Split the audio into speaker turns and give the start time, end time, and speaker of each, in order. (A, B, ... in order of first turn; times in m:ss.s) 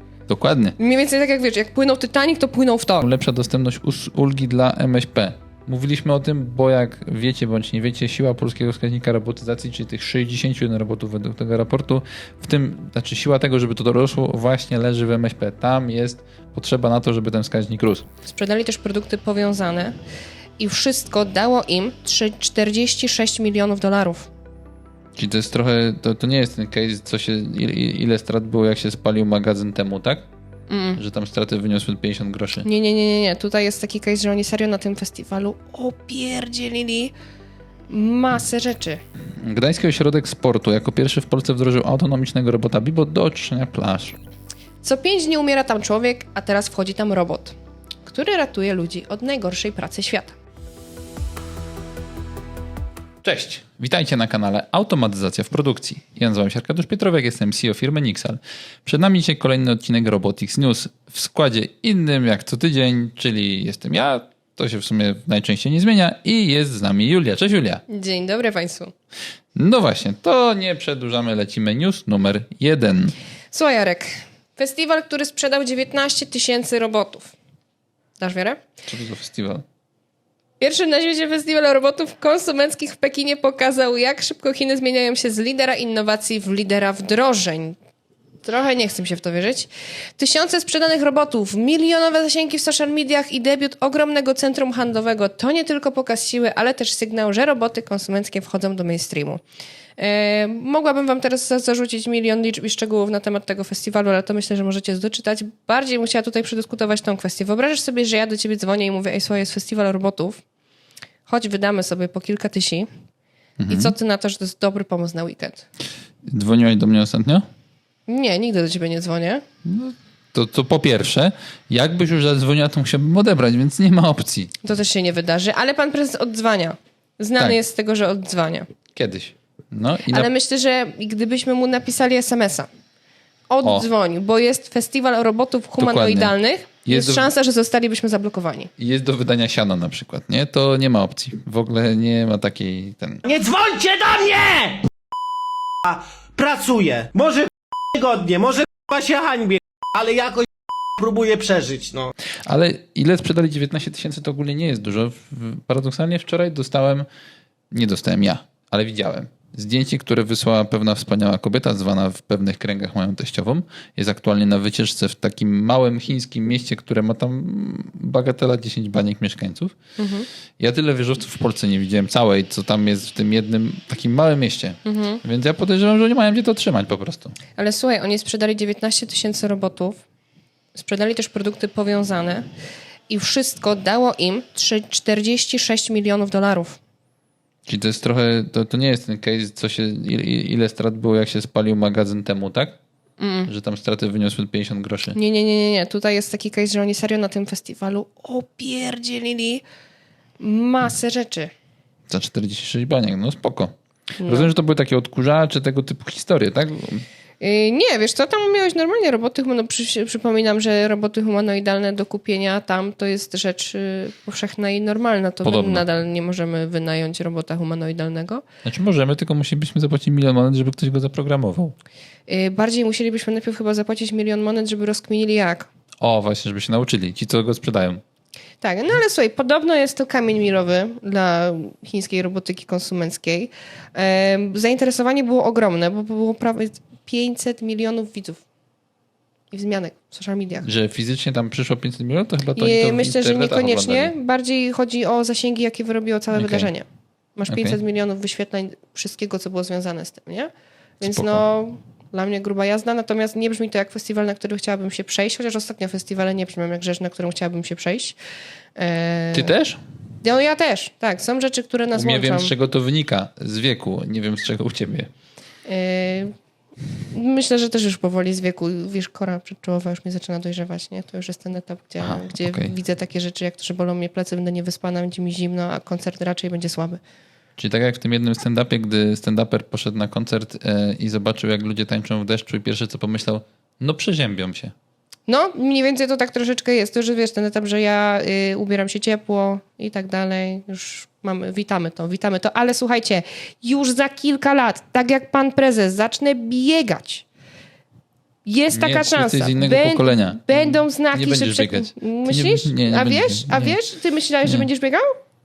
0:00.3-0:00.8 A
0:00.8-0:03.0 B
0:03.0-0:18.0 A
0:18.3-0:20.0 B
0:20.6-0:24.3 B
0:25.2-0:30.3 A
0:30.7-0:31.0 B
0:31.0-0:32.7 A
0:32.6-0:37.1 B
0:37.9-0:39.0 B
0:39.4-0:44.2 A
0:44.8-0:47.5 B
0:48.0-0:50.4 B
0:53.2-1:07.8 A
1:07.9-1:08.9 B
1:09.6-1:13.1 A
1:13.5-1:17.3 B
1:18.2-1:18.6 B
1:18.9-1:19.6 A
1:20.6-1:27.8 B
1:28.4-1:39.4 B
1:40.0-1:50.4 B
1:51.3-1:52.9 B
1:53.6-1:53.9 A
1:53.7-1:55.7 B
1:56.3-1:57.4 A
1:58.1-1:59.4 B
1:59.6-2:04.5 A
2:04.6-2:08.7 B
2:08.9-2:10.3 A
2:10.1-2:12.7 B
2:13.5-2:18.7 B
2:15.8-2:16.3 A
2:16.8-2:17.3 A
2:18.8-2:23.2 A
2:23.2-2:24.9 C
2:25.8-2:32.1 C
2:32.5-2:37.1 A
2:37.7-2:49.8 A
2:50.0-2:50.3 B
2:50.6-2:57.4 A
2:54.8-2:55.2 B
2:57.6-3:00.0 B
3:00.8-3:02.5 B
3:03.1-3:06.8 B
3:07.7-3:12.8 A
3:13.2-3:13.5 B
3:13.5-3:15.2 A
3:15.2-3:19.6 B
3:20.4-3:21.5 B
3:22.1-3:23.8 A
3:24.2-3:24.5 B
3:24.3-3:27.0 A
3:27.4-3:38.4 B
3:35.4-3:35.8 A
3:38.6-3:41.7 A
3:42.3-3:45.7 B
3:46.0-3:48.0 A
3:48.6-3:58.4 B
3:59.5-4:00.7 B
4:00.6-4:04.1 A
4:02.6-4:06.9 B
4:06.3-4:06.7 A
4:07.4-4:18.2 B
4:07.5-4:07.8 A
4:11.0-4:11.4 A
4:18.8-4:19.5 B
4:19.3-4:19.8 A
4:20.2-4:22.5 B
4:21.9-4:25.1 A
4:25.7-4:26.3 B
4:27.1-4:37.0 B
4:32.0-4:32.7 A
4:37.6-4:44.7 A
4:45.3-4:57.3 B
4:58.5-5:05.1 B
4:58.7-5:03.8 A